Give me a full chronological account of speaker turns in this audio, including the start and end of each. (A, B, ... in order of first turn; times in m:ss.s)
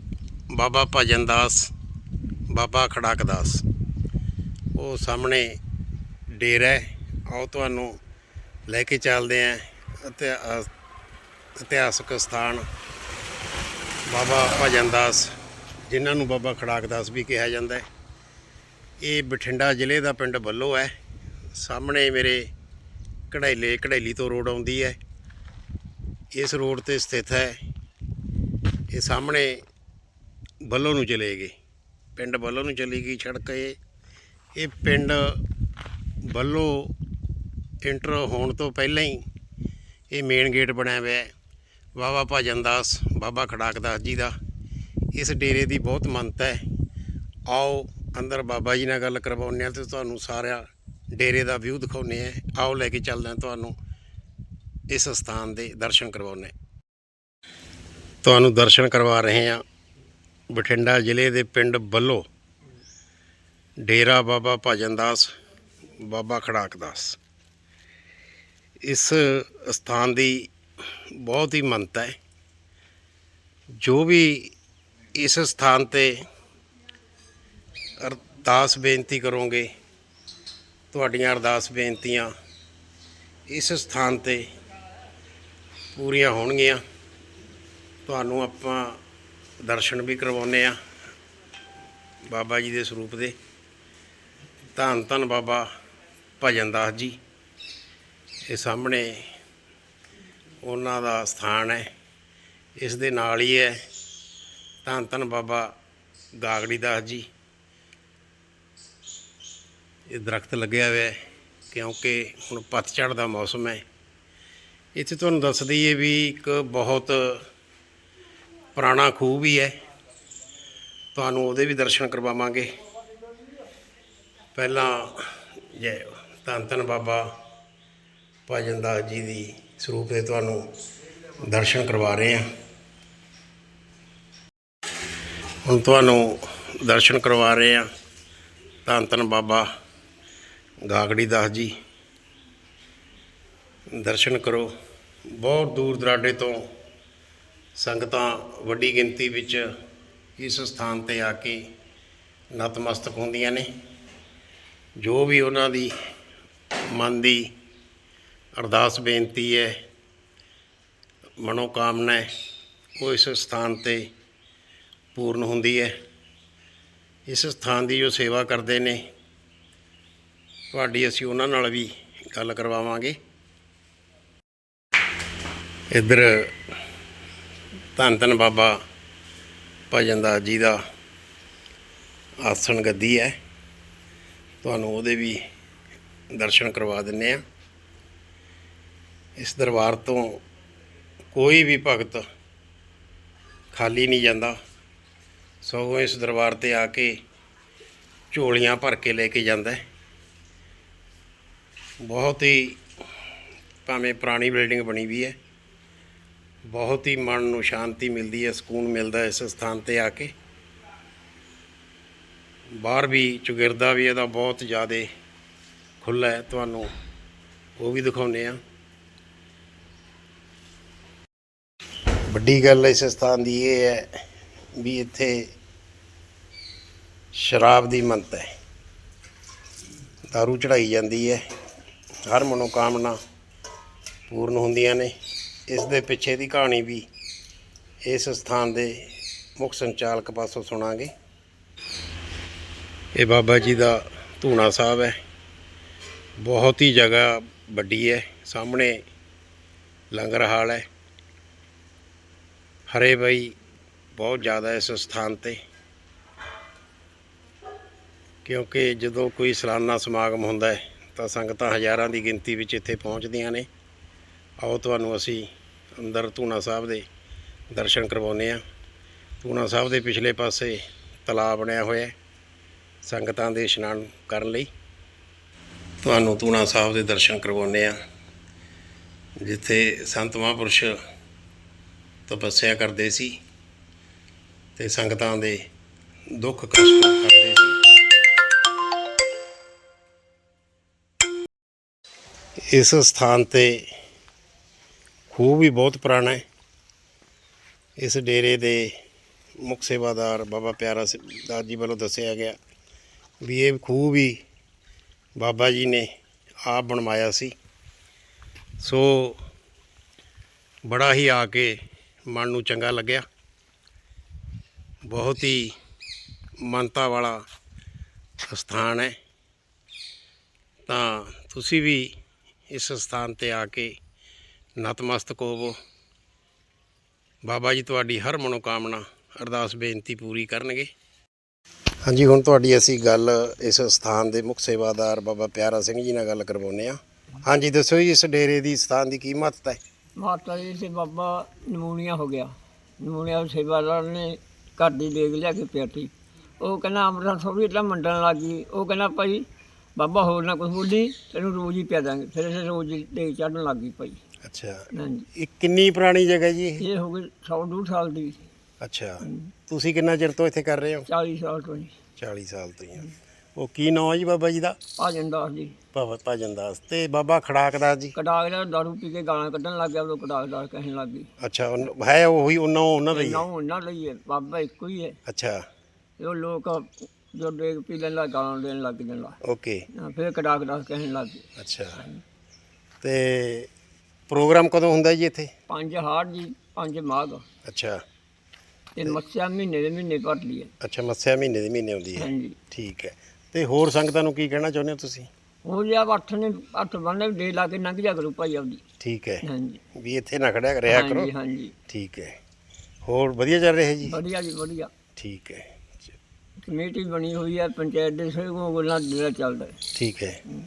0:00.5-0:01.7 A
0:02.5-0:03.6 A
0:04.7-0:05.6 A
0:06.3-0:08.0 A
0:08.7-0:10.7 A
0:11.6-0:12.6 A
0:14.1-0:15.3 A
0:15.9-0:17.8 A
0:19.0-0:20.9 A
0:21.5-0:22.5 A
0:23.3-0:25.0 A
0:26.3-0:27.6 A
0:28.9-0:29.6 A
0:30.6-0:31.5 A
0:32.2-0:33.8 A
0:34.5-0:35.4 A
0:36.2-0:36.9 A
0:37.8-0:39.2 A
0:40.1-0:41.3 A
0:42.0-0:44.3 A
0:45.1-0:46.6 A
0:47.5-0:53.7 A
0:54.9-0:56.5 A
0:58.2-0:59.6 A
1:00.5-1:02.2 A
1:03.8-1:05.3 A
1:06.0-1:07.2 A
1:08.8-1:12.2 A
1:13.8-1:14.5 A
1:15.1-1:16.2 A
1:18.0-1:19.7 A
1:20.9-1:22.3 A
1:23.5-1:24.5 A
1:25.9-1:26.8 A
1:28.0-1:29.0 A
1:29.6-1:30.8 A
1:32.3-1:33.3 A
1:34.7-1:35.7 A
1:36.4-1:37.2 A
1:38.5-1:39.3 A
1:40.6-1:41.9 A
1:42.8-1:43.8 A
1:44.8-1:45.7 A
1:46.3-1:47.3 A
1:50.1-1:51.2 A
1:51.7-1:53.8 A
1:54.9-1:57.4 A
1:58.7-1:59.7 A
2:01.1-2:02.7 A
2:04.5-2:07.3 A
2:08.5-2:10.7 A
2:11.4-2:12.4 A
2:15.6-2:17.8 A
2:18.8-2:19.7 A
2:20.8-2:21.7 A
2:23.9-2:24.7 A
2:25.3-2:26.7 A
2:27.8-2:29.7 A
2:30.4-2:31.7 A
2:32.5-2:33.7 A
2:35.0-2:35.9 A
2:36.9-2:37.5 A
2:38.6-2:39.8 A
2:41.4-2:42.3 A
2:43.0-2:44.1 A
2:45.1-2:45.9 A
2:47.3-2:49.0 A
2:50.7-2:53.2 A
2:55.9-2:56.5 A
2:58.0-2:58.8 A
2:59.9-3:00.8 A
3:02.4-3:03.4 A
3:04.6-3:05.4 A
3:06.3-3:07.4 A
3:09.4-3:10.4 A
3:11.3-3:12.2 A
3:13.7-3:14.6 A
3:15.6-3:17.1 A
3:18.3-3:19.8 A
3:22.0-3:22.8 A
3:23.8-3:25.3 A
3:26.7-3:30.3 A
3:32.8-3:35.1 A
3:36.0-3:36.9 A
3:37.8-3:38.6 A
3:42.3-3:44.2 A
3:44.8-3:45.5 A
3:47.3-3:48.4 A
3:50.3-3:51.4 A
3:52.3-3:53.2 A
3:54.3-3:55.1 A
3:55.7-3:57.0 A
3:58.0-4:01.1 A
4:03.1-4:05.1 A
4:06.4-4:09.0 A
4:10.1-4:10.8 A
4:12.9-4:13.6 A
4:14.2-4:15.6 A
4:18.4-4:23.7 A
4:24.6-4:27.0 A
4:27.7-4:28.6 A
4:29.4-4:32.1 A
4:33.0-4:34.7 A
4:36.0-4:38.0 A
4:39.4-4:41.0 A
4:42.3-4:43.4 A
4:44.8-4:45.6 A
4:46.3-4:47.8 A
4:52.7-4:53.9 A
4:55.3-4:56.4 A
4:58.0-4:58.9 A
4:59.6-5:02.6 A
5:03.4-5:04.4 A
5:05.4-5:06.1 A
5:06.6-5:07.5 A
5:08.8-5:09.4 A
5:10.8-5:13.2 A
5:15.1-5:15.7 A
5:16.6-5:17.4 A
5:18.5-5:19.1 A
5:20.9-5:22.1 A
5:22.7-5:23.9 A
5:24.8-5:25.8 A
5:27.4-5:30.9 A
5:32.0-5:39.8 A
5:40.2-5:54.2 B
5:54.4-5:56.8 A
5:54.9-5:55.3 B
5:56.8-5:58.4 B
5:58.8-6:01.1 A
5:59.2-5:59.5 B
6:01.1-6:01.9 B
6:02.2-6:04.8 A
6:05.0-6:05.8 B
6:05.9-6:08.1 A
6:08.1-6:11.3 B
6:11.4-6:13.4 A
6:13.1-6:15.2 B
6:15.2-6:15.6 A
6:16.2-6:19.4 B
6:19.4-6:19.9 A
6:19.9-6:21.5 B
6:21.6-6:22.0 A
6:23.0-6:23.7 A
6:24.3-6:25.5 A
6:25.7-6:27.4 B
6:27.6-6:28.0 A
6:28.9-6:30.7 B
6:30.8-6:35.3 A
6:32.2-6:32.6 B
6:35.6-6:38.8 B
6:39.0-6:41.3 A
6:39.4-6:39.8 B
6:40.9-6:41.7 B
6:41.9-6:42.4 A
6:43.0-6:44.2 A
6:44.0-6:44.9 B
6:45.2-6:45.7 A
6:46.6-6:49.8 B
6:49.9-6:50.4 A